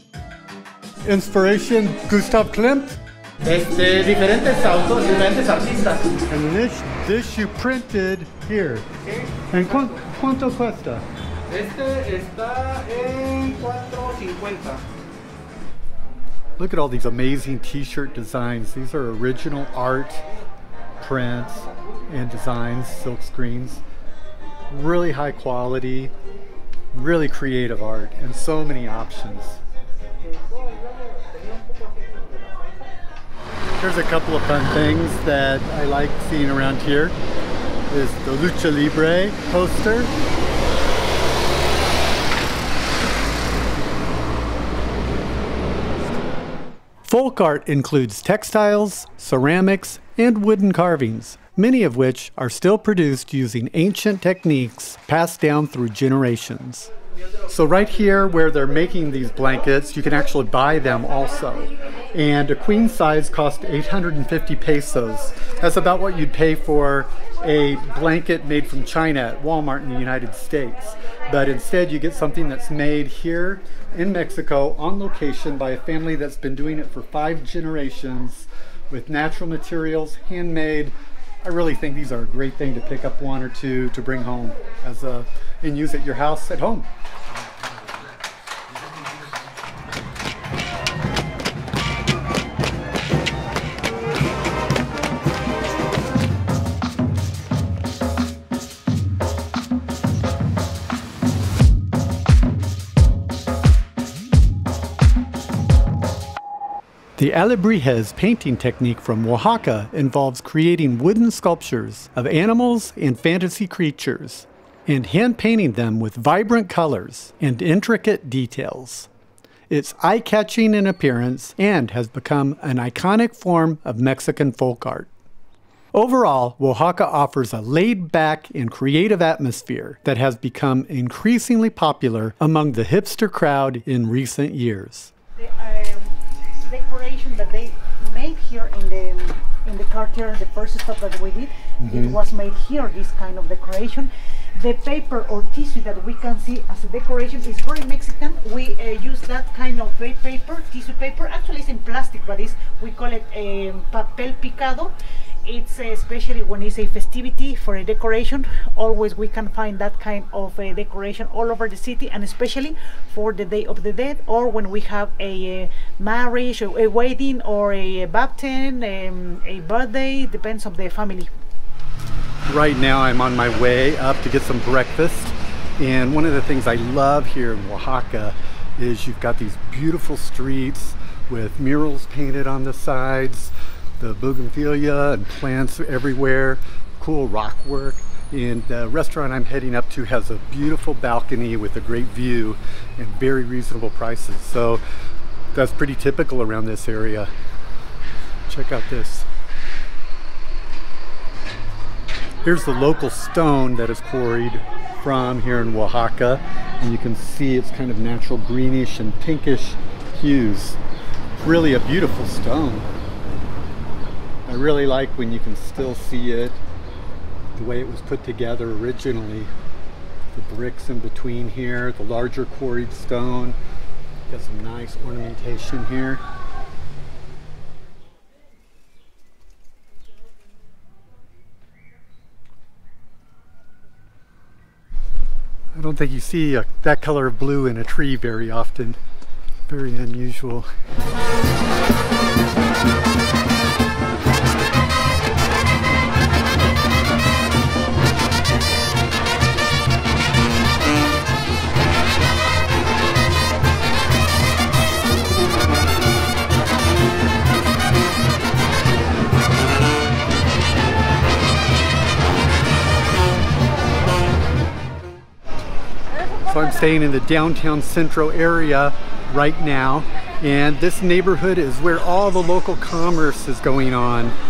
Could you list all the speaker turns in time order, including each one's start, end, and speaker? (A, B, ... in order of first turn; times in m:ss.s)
0:01.1-0:03.0 A
0:03.4-0:06.2 B
0:06.3-0:08.9 A
0:09.1-0:10.0 B
0:09.5-0:11.0 A
0:11.5-0:14.8 B
0:16.6-0:20.2 A
0:21.0-0:23.8 A
0:24.7-0:26.1 A
0:26.9-0:29.6 A
0:33.8-0:37.2 A
0:37.9-0:40.1 A
0:47.1-0:56.9 A
0:57.5-1:26.9 A
1:47.2-1:59.1 A
1:59.7-2:05.1 A
2:05.9-2:15.1 A
2:15.4-2:16.2 C
2:16.7-2:34.9 C
2:21.8-2:22.2 A
2:35.5-2:51.3 C
2:52.5-3:14.8 A
3:15.5-3:17.3 A
3:18.5-3:19.3 A
3:22.4-3:30.8 A
3:31.4-3:32.9 A
3:34.5-3:36.6 A
3:37.6-3:39.5 A
3:40.3-3:43.6 A
3:44.3-3:46.2 A
3:55.7-3:59.0 A
3:59.7-4:00.7 A
4:26.5-4:34.4 A